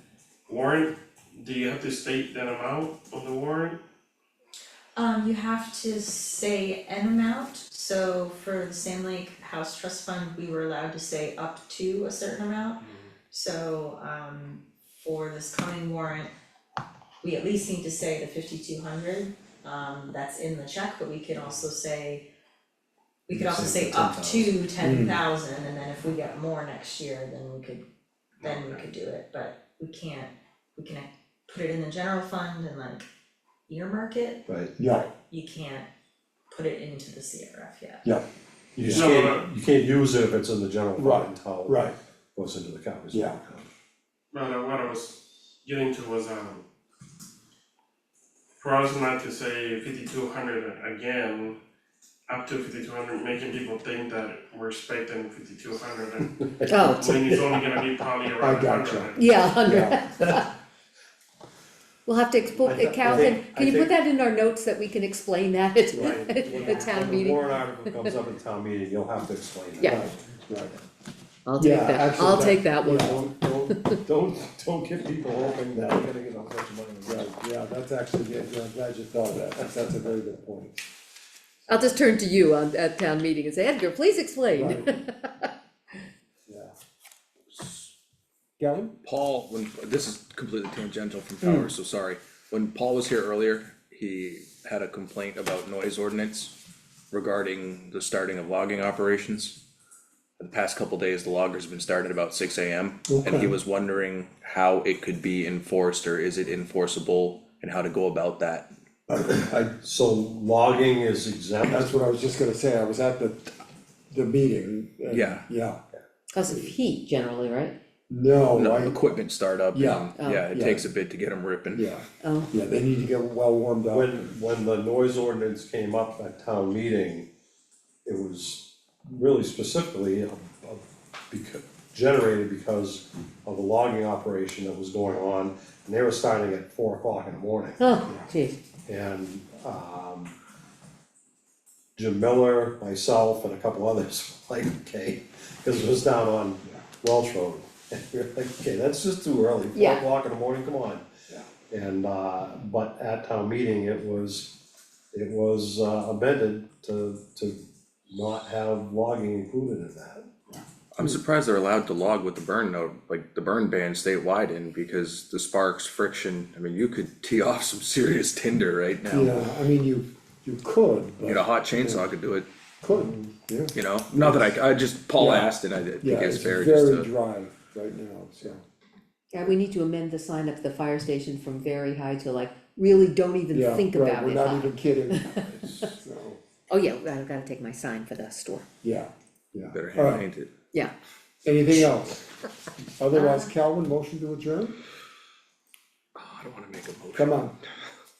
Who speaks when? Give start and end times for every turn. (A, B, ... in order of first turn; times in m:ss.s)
0:00.5-0:03.8 A
0:05.0-0:16.3 B
0:17.2-0:22.3 B
0:23.3-0:27.8 B
0:23.3-0:24.6 C
0:24.8-0:25.2 D
0:28.4-0:28.8 A
0:28.4-0:33.1 B
0:33.7-0:35.9 B
0:34.5-0:34.8 C
0:34.8-0:35.1 D
0:36.5-0:38.0 B
0:38.8-0:43.7 C
0:38.8-0:39.1 D
0:38.9-0:39.4 A
0:41.0-0:42.0 D
0:43.1-0:43.4 D
0:44.3-0:46.6 A
0:48.6-0:51.6 A
0:52.3-0:59.5 A
0:56.7-0:57.4 E
0:58.4-1:00.0 D
0:59.1-1:00.5 E
1:02.1-1:08.1 E
1:02.6-1:03.9 C
1:03.1-1:03.3 D
1:05.9-1:06.3 D
1:05.9-1:10.1 C
1:06.6-1:06.9 B
1:09.9-1:10.8 D
1:11.4-1:14.0 E
1:11.6-1:13.2 D
1:12.4-1:17.3 C
1:15.8-1:16.0 D
1:17.0-1:20.8 D
1:21.7-1:25.5 E
1:24.5-1:24.9 D
1:26.5-1:26.7 D
1:27.5-1:27.9 F
1:28.6-1:29.0 D
1:29.0-1:36.5 F
1:37.1-1:39.6 F
1:40.4-1:48.7 F
1:43.1-1:43.6 D
1:49.1-1:49.7 D
1:49.5-1:51.9 C
1:51.6-1:55.8 D
1:55.1-1:55.5 F
1:56.3-1:57.8 E
1:58.1-1:59.0 D
1:58.5-2:01.9 F
1:59.7-2:00.9 D
2:00.2-2:00.5 E
2:01.7-2:04.4 D
2:02.2-2:02.5 E
2:03.9-2:07.3 C
2:08.0-2:17.8 C
2:17.8-2:18.6 E
2:18.1-2:18.3 D
2:18.9-2:20.3 C
2:22.0-2:31.0 C
2:29.7-2:30.0 E
2:31.7-2:34.5 C
2:35.1-2:40.3 C
2:40.9-2:49.5 F
2:49.1-2:52.1 D
2:51.2-2:52.5 F
2:52.8-2:54.4 D
2:53.7-2:57.1 F
2:55.2-2:58.6 D
2:59.3-3:05.9 E
3:03.5-3:05.2 D
3:05.3-3:05.8 F
3:05.9-3:06.4 D
3:06.7-3:08.7 E
3:08.8-3:10.2 D
3:09.7-3:10.5 F
3:11.4-3:12.2 D
3:13.0-3:14.8 D
3:13.1-3:13.5 E
3:16.2-3:17.4 F
3:17.1-3:17.6 D